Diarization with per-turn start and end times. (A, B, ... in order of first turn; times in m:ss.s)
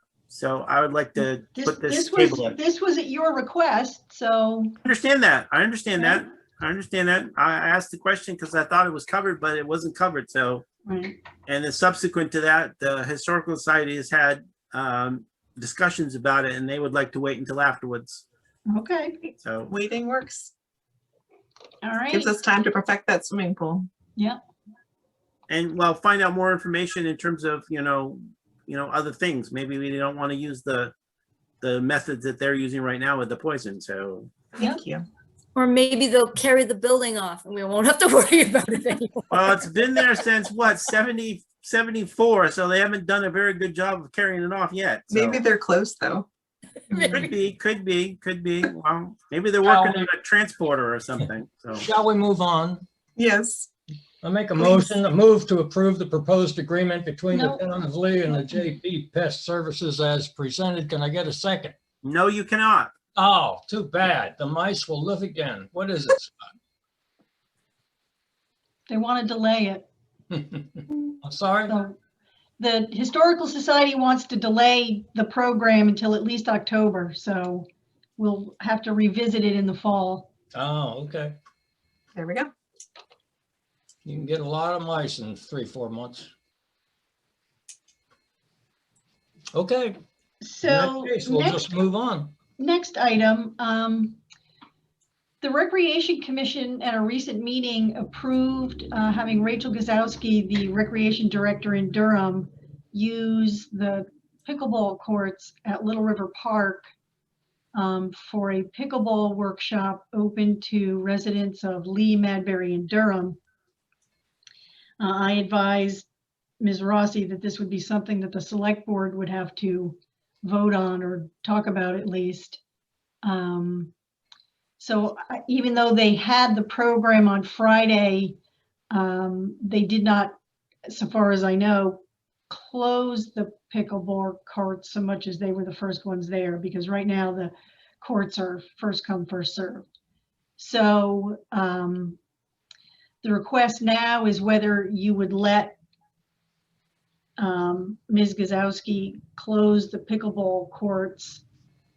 0:00.3-0:02.6 A
0:01.2-0:04.8 B
0:04.8-0:10.6 A
0:06.0-0:06.2 B
0:10.8-0:11.2 B
0:11.4-0:18.2 A
0:18.7-0:19.2 B
0:19.4-0:19.7 A
0:19.7-0:20.5 C
0:21.8-0:22.3 B
0:22.1-0:23.9 C
0:25.5-0:30.9 A
0:31.6-0:34.3 A
0:34.6-0:35.0 C
0:35.6-0:39.1 D
0:39.3-0:45.4 A
0:45.1-0:46.3 C
0:47.1-0:51.9 A
0:49.6-0:50.1 E
0:51.8-0:52.8 E
0:53.2-0:53.7 C
0:54.2-1:01.8 E
0:57.3-0:57.6 B
1:02.0-1:02.9 A
1:03.2-1:06.5 E
1:08.9-1:09.9 B
1:10.3-1:11.8 E
1:11.7-1:12.0 B
1:12.6-1:20.3 B
1:20.5-1:21.4 E
1:22.1-1:22.5 C
1:24.0-1:26.3 E
1:29.5-1:30.0 E
1:30.4-1:31.7 B
1:30.6-1:32.3 E
1:32.6-1:34.2 B
1:35.4-1:46.9 B
1:47.7-1:53.4 B
1:55.0-1:56.0 B
1:56.6-2:02.6 B
2:03.2-2:03.9 B
2:04.8-2:08.4 B
2:08.9-2:10.3 B
2:10.9-2:19.8 B
2:20.6-2:22.2 B
2:23.2-2:25.8 B
2:27.4-2:31.4 B